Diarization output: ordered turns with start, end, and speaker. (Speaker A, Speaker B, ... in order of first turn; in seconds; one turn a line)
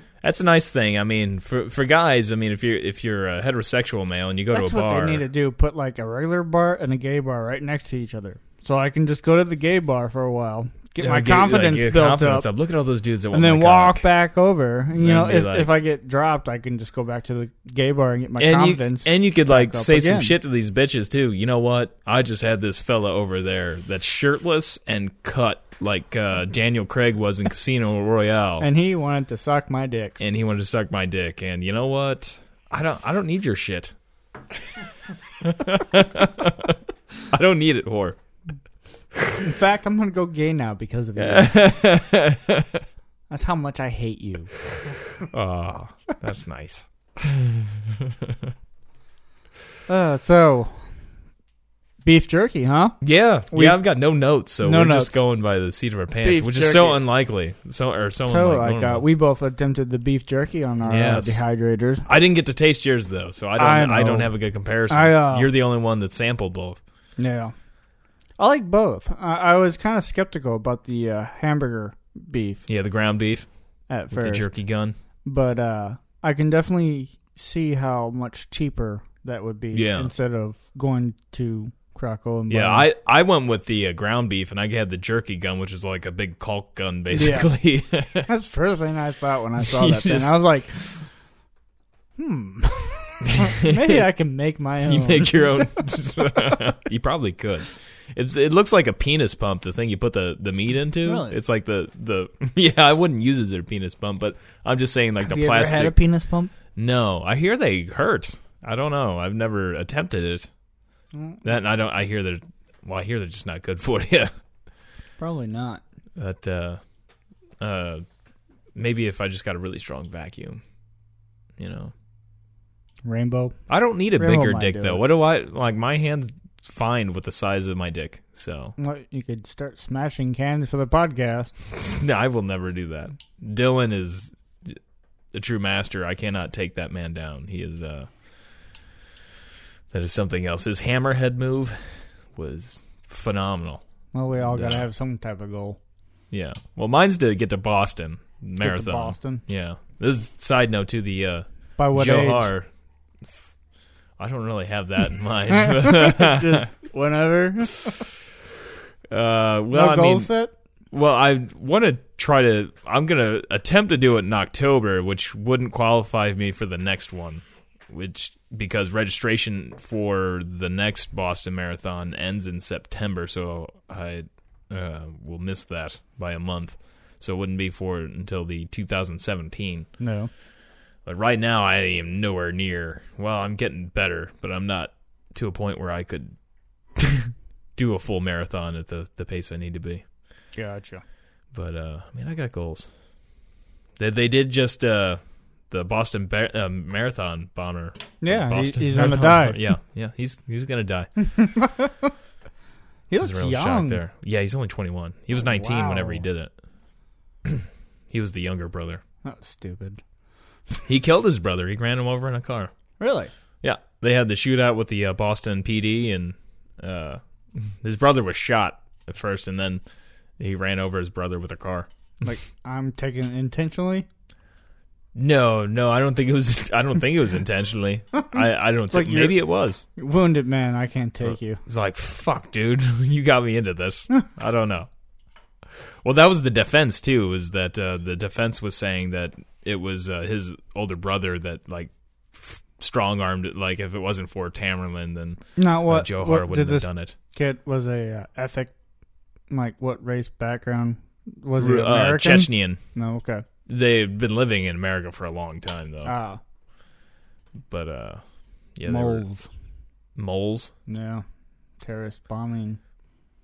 Speaker A: 0.2-5.2
Speaker B: 4.5-12.5
Speaker A: 11.0-14.0
Speaker B: 13.3-20.3
Speaker A: 14.9-15.7
Speaker A: 18.4-28.7
Speaker B: 28.6-30.2
Speaker A: 30.2-33.9
Speaker A: 35.4-36.8
Speaker A: 37.3-38.2
Speaker B: 39.4-41.7
Speaker A: 41.1-42.8
Speaker B: 43.3-44.5
Speaker A: 45.2-48.5
Speaker B: 49.9-50.9
Speaker B: 52.0-53.0
Speaker A: 53.0-59.0
Speaker B: 53.5-53.8
Speaker B: 54.6-55.2
Speaker B: 56.2-57.0
Speaker B: 58.3-62.1
Speaker A: 60.8-61.4
Speaker A: 62.0-66.8
Speaker B: 63.6-64.3
Speaker B: 64.9-65.5
Speaker B: 67.2-67.5
Speaker B: 68.4-72.6
Speaker A: 72.7-73.5
Speaker B: 73.9-74.5
Speaker A: 74.1-75.0
Speaker B: 75.2-82.9
Speaker A: 79.7-80.1
Speaker A: 82.5-88.3
Speaker B: 87.1-87.5
Speaker B: 88.2-91.1
Speaker A: 89.6-90.3
Speaker B: 92.2-95.8
Speaker A: 93.2-94.1
Speaker A: 94.8-106.0
Speaker B: 101.0-101.4
Speaker B: 105.2-106.5
Speaker A: 106.8-110.5
Speaker B: 111.1-111.4
Speaker A: 111.4-114.3
Speaker B: 115.2-115.8
Speaker A: 116.2-116.8
Speaker A: 117.6-118.0
Speaker A: 118.7-120.6
Speaker A: 121.6-121.9
Speaker B: 123.0-123.5
Speaker A: 123.7-128.7
Speaker B: 124.2-125.0
Speaker B: 128.8-131.5
Speaker A: 131.7-134.8
Speaker A: 135.3-138.1
Speaker A: 139.9-143.8
Speaker B: 144.1-145.8
Speaker A: 144.3-144.9
Speaker A: 146.3-152.7
Speaker B: 148.6-149.4
Speaker B: 151.8-152.5
Speaker A: 154.2-156.7
Speaker B: 155.5-158.1
Speaker A: 159.1-160.3
Speaker B: 159.7-160.5
Speaker A: 160.9-179.9
Speaker B: 180.0-180.3
Speaker A: 181.0-186.3
Speaker A: 186.9-190.0
Speaker B: 190.6-191.0
Speaker A: 191.5-192.9
Speaker A: 194.0-201.1
Speaker B: 198.2-199.6
Speaker B: 201.2-202.1
Speaker B: 203.1-204.0
Speaker A: 203.2-206.5
Speaker B: 205.3-206.2
Speaker A: 207.4-209.0
Speaker B: 209.2-210.0
Speaker A: 210.9-212.7
Speaker B: 213.0-213.3
Speaker A: 213.6-219.8
Speaker A: 220.4-221.9
Speaker B: 222.2-224.1
Speaker A: 225.1-229.8
Speaker B: 228.9-231.6
Speaker A: 231.2-234.9
Speaker A: 236.0-247.1
Speaker B: 245.6-248.7
Speaker B: 249.5-253.4
Speaker A: 251.6-252.8
Speaker A: 253.7-256.1
Speaker B: 256.0-256.4
Speaker A: 257.7-258.2
Speaker A: 258.7-259.2
Speaker B: 258.8-259.5
Speaker A: 260.1-260.7
Speaker B: 260.9-261.2
Speaker B: 261.8-262.8